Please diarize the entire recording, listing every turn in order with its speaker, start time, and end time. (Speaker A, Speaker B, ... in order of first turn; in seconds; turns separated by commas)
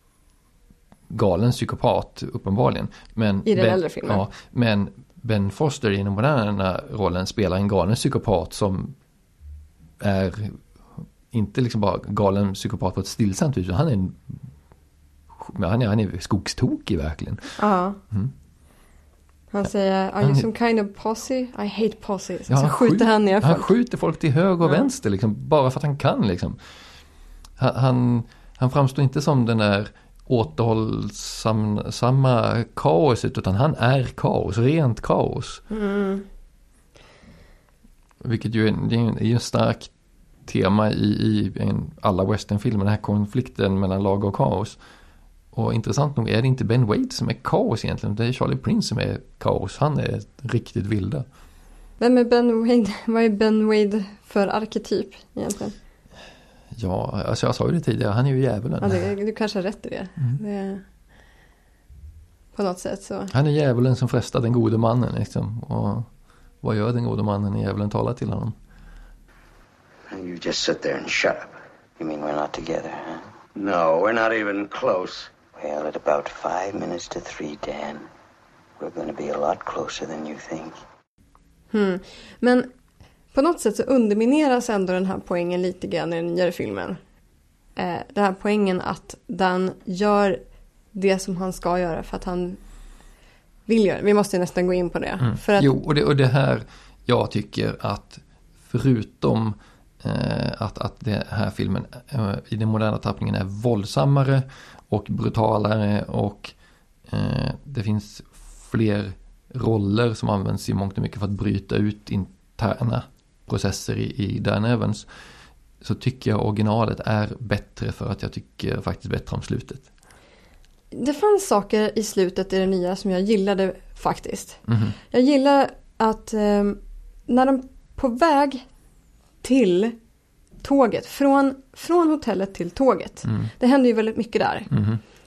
Speaker A: 1.1-8.9, Speaker B: 3.5-4.2, Speaker A: 10.0-14.4, Speaker A: 15.3-17.6, Speaker B: 17.6-18.0, Speaker B: 19.5-23.7, Speaker A: 20.2-20.4, Speaker A: 22.5-26.6, Speaker A: 27.6-35.6, Speaker B: 35.7-36.2, Speaker A: 38.2-39.9, Speaker A: 40.5-44.8, Speaker A: 45.5-51.2, Speaker B: 52.0-55.8, Speaker A: 56.7-59.1, Speaker B: 58.8-60.8, Speaker B: 62.5-63.3, Speaker A: 63.3-66.1, Speaker A: 66.6-68.5, Speaker C: 70.1-78.1, Speaker C: 78.8-80.8, Speaker B: 81.7-82.7, Speaker B: 83.3-87.0, Speaker B: 87.8-90.4, Speaker B: 90.9-92.6, Speaker B: 93.7-95.7, Speaker A: 95.2-106.5, Speaker A: 107.1-115.1, Speaker A: 115.8-119.8, Speaker B: 120.9-128.7, Speaker A: 124.7-124.9, Speaker B: 129.4-129.9, Speaker B: 130.6-134.7, Speaker A: 134.7-135.0